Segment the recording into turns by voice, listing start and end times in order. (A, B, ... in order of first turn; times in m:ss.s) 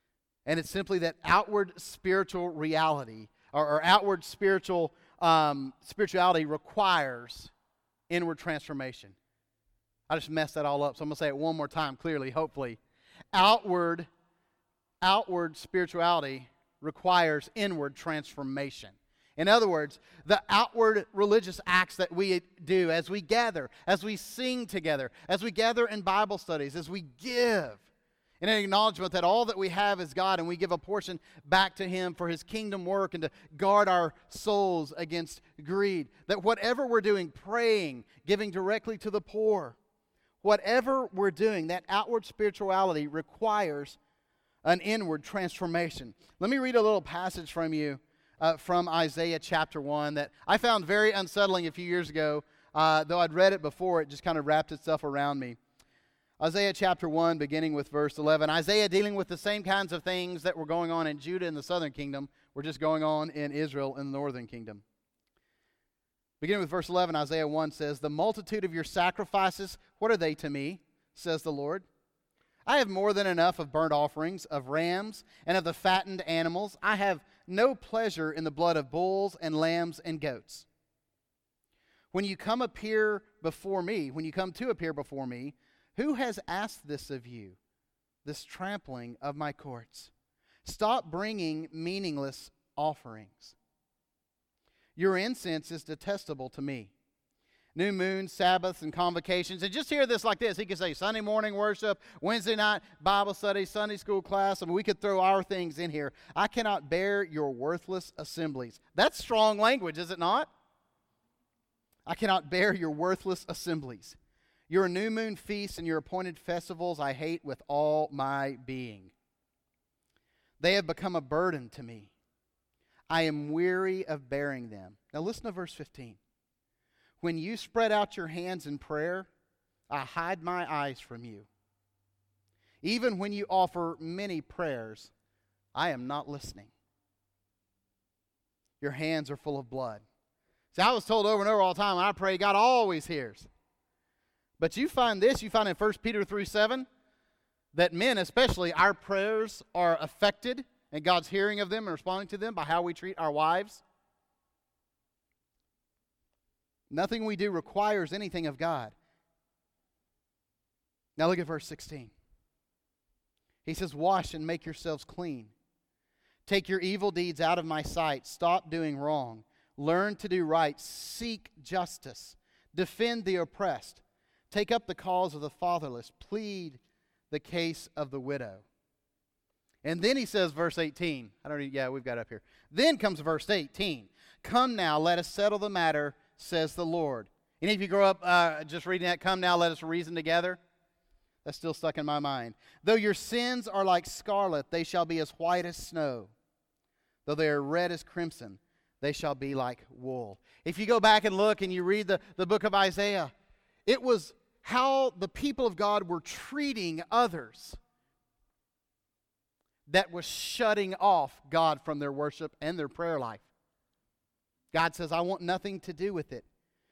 0:00.4-0:07.5 A
0:08.1-0:09.2 A
0:10.1-0:12.8 A
0:13.3-0:14.1 A
0:15.0-0:27.8 A
0:28.4-0:39.8 A
0:40.4-0:44.0 A
0:44.6-0:55.6 A
0:56.4-1:04.8 A
1:06.4-1:11.9 A
1:12.6-1:20.6 A
1:22.1-1:27.6 A
1:28.2-1:30.1 A
1:30.6-1:33.6 A
1:35.0-1:36.9 A
1:37.7-1:50.5 A
1:52.0-1:54.2 A
1:54.7-1:59.1 A
2:00.6-2:02.1 A
2:03.1-2:06.2 A
2:07.2-2:09.3 A
2:09.9-2:11.5 A
2:12.8-2:15.1 A
2:15.7-2:16.7 A
2:18.8-2:20.0 A
2:20.7-2:23.5 A
2:24.6-2:26.9 A
2:27.7-2:33.8 A
2:36.9-2:38.9 A
2:41.2-2:42.1 A
2:43.6-2:45.5 A
2:46.4-2:58.6 A
2:59.8-3:10.6 A
3:11.4-3:16.3 A
3:17.2-3:23.3 A
3:23.9-3:27.8 A
3:29.9-3:33.5 A
3:34.7-3:36.4 A